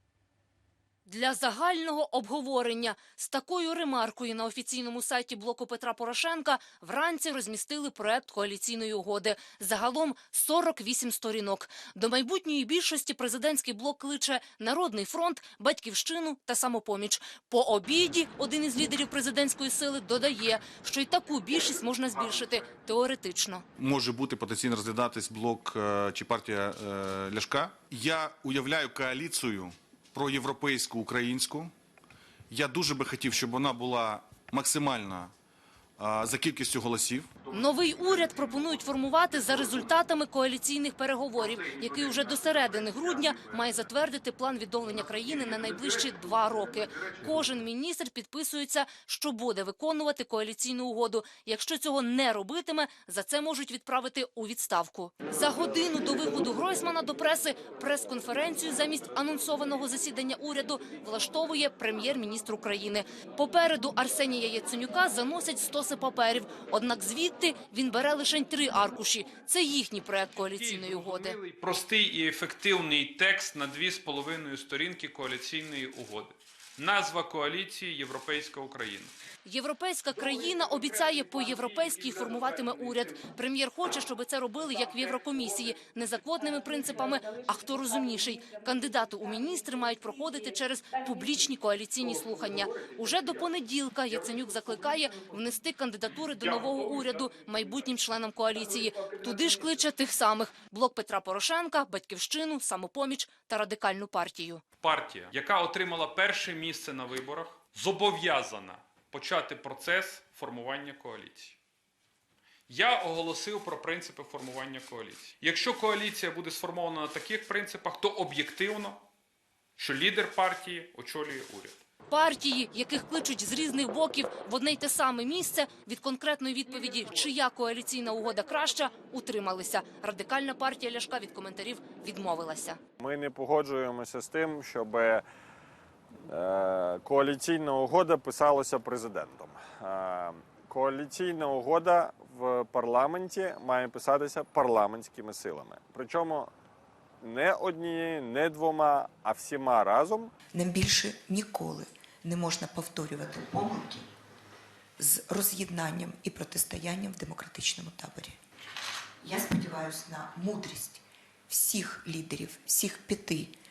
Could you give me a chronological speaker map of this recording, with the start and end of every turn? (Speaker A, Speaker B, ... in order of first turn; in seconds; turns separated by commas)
Speaker A: 1.1-23.6, Speaker B: 23.8-31.7, Speaker B: 32.5-35.3, Speaker B: 36.0-37.5, Speaker A: 37.5-71.4, Speaker C: 70.6-79.1, Speaker A: 79.5-104.6, Speaker C: 104.8-111.6, Speaker C: 112.7-119.0, Speaker C: 119.8-121.8, Speaker A: 122.1-132.8, Speaker D: 133.0-135.2, Speaker D: 136.3-146.5, Speaker D: 147.2-150.3, Speaker E: 150.5-154.1, Speaker E: 155.0-158.4, Speaker E: 159.2-163.5